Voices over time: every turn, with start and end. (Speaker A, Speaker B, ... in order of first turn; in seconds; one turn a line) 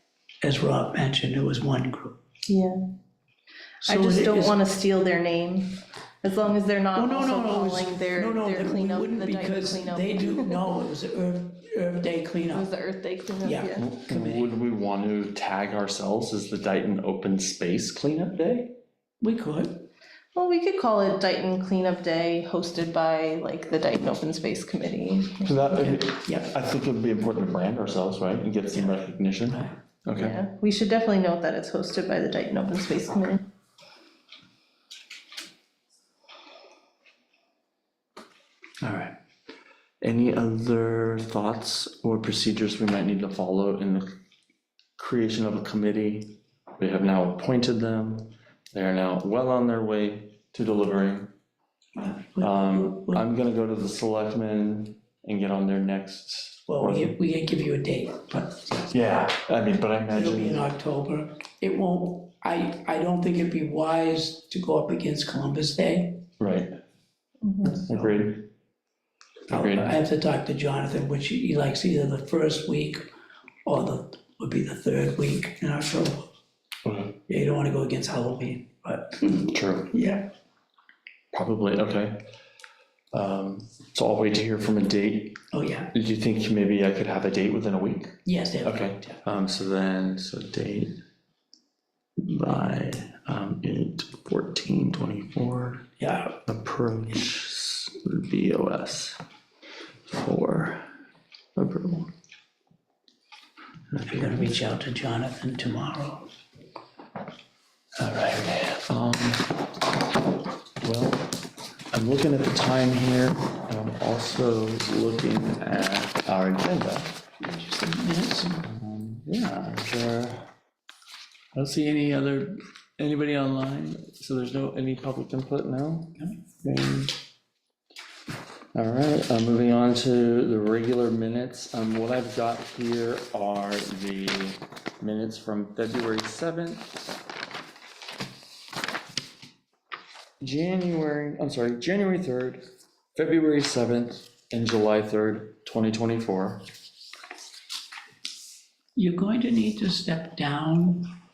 Speaker A: 0.4-2.2
Speaker B: 2.5-2.8
Speaker A: 3.8-4.6
Speaker B: 3.9-10.7
Speaker A: 7.0-12.7
Speaker B: 12.5-13.9
Speaker A: 13.4-14.5
Speaker C: 13.7-18.8
Speaker A: 19.2-19.9
Speaker B: 20.3-26.0
Speaker C: 25.4-30.4
Speaker A: 25.8-26.5
Speaker A: 28.7-29.8
Speaker B: 30.2-33.4
Speaker A: 38.8-39.1
Speaker C: 40.0-44.1
Speaker C: 45.0-51.3
Speaker A: 52.0-53.2
Speaker C: 52.4-57.2
Speaker A: 56.7-58.9
Speaker C: 58.9-60.6
Speaker A: 60.1-66.3
Speaker C: 66.4-66.7
Speaker B: 67.4-67.8
Speaker C: 67.7-68.5
Speaker A: 67.8-68.2
Speaker A: 69.5-73.1
Speaker C: 69.5-69.9
Speaker A: 73.7-76.3
Speaker C: 76.8-77.2
Speaker A: 77.3-80.3
Speaker C: 79.4-79.9
Speaker C: 81.3-82.2
Speaker C: 83.1-85.4
Speaker A: 85.5-85.9
Speaker C: 85.9-91.0
Speaker A: 88.2-89.2
Speaker C: 92.2-95.9
Speaker A: 96.0-96.4
Speaker C: 96.5-99.2
Speaker C: 100.1-100.9
Speaker C: 101.5-102.1
Speaker A: 103.9-106.3
Speaker C: 108.0-109.6
Speaker C: 110.8-111.3
Speaker C: 111.9-117.2
Speaker A: 117.4-118.7
Speaker C: 118.6-120.5
Speaker C: 121.5-127.2
Speaker C: 128.7-137.1
Speaker C: 140.4-142.6
Speaker C: 143.2-146.6
Speaker A: 148.9-151.1